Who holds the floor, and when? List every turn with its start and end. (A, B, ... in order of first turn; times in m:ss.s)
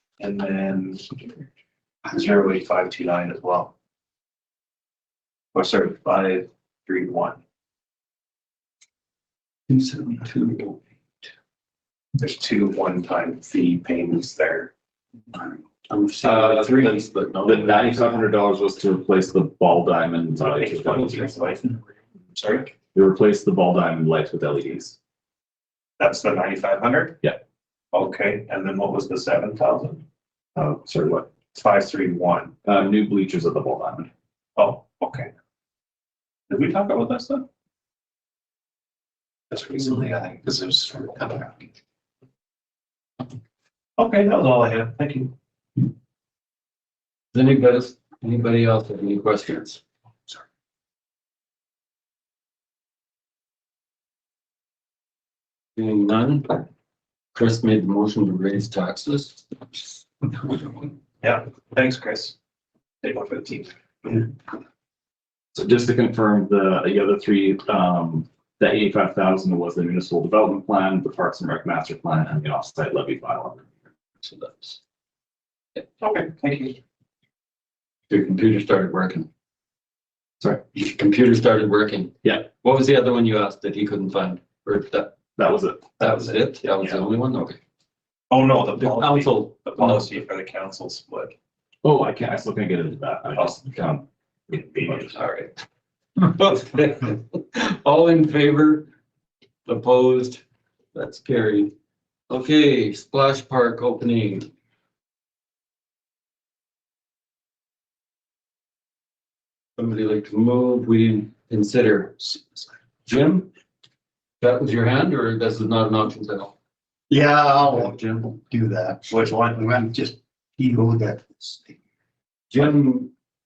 0:00.2-0:01.0 A
0:02.1-0:03.7 A
0:05.5-0:07.4 A
0:09.7-0:10.8 B
0:12.2-0:14.7 A
0:15.9-0:18.2 B
0:16.2-0:21.3 C
0:20.4-0:21.7 A
0:22.3-0:22.7 A
0:22.9-0:25.0 C
0:26.0-0:27.2 A
0:27.9-0:30.0 A
0:30.6-0:31.3 C
0:31.5-0:32.5 A
0:32.6-0:34.1 C
0:34.6-0:35.3 A
0:36.5-0:37.4 A
0:39.5-0:41.5 A
0:40.6-0:41.4 D
0:44.0-0:45.3 A
0:47.3-0:49.8 B
0:55.8-0:56.6 B
0:57.3-0:59.4 B
1:01.2-1:02.4 A
1:03.0-1:04.2 A
1:05.5-1:13.7 C
1:14.3-1:14.6 B
1:16.0-1:16.8 A
1:18.1-1:19.3 B
1:20.7-1:25.1 B
1:25.4-1:25.9 C
1:26.0-1:27.6 B
1:28.3-1:31.3 A
1:28.8-1:30.0 B
1:31.8-1:35.1 C
1:34.9-1:35.5 B
1:36.2-1:38.9 B
1:39.7-1:40.4 B
1:40.9-1:41.7 B
1:42.3-1:44.5 B
1:49.8-1:52.3 B
1:53.0-1:53.5 B
1:54.4-1:56.5 B
1:57.1-2:01.8 D
1:57.8-1:58.3 B
1:59.1-1:59.6 A
2:02.5-2:03.1 B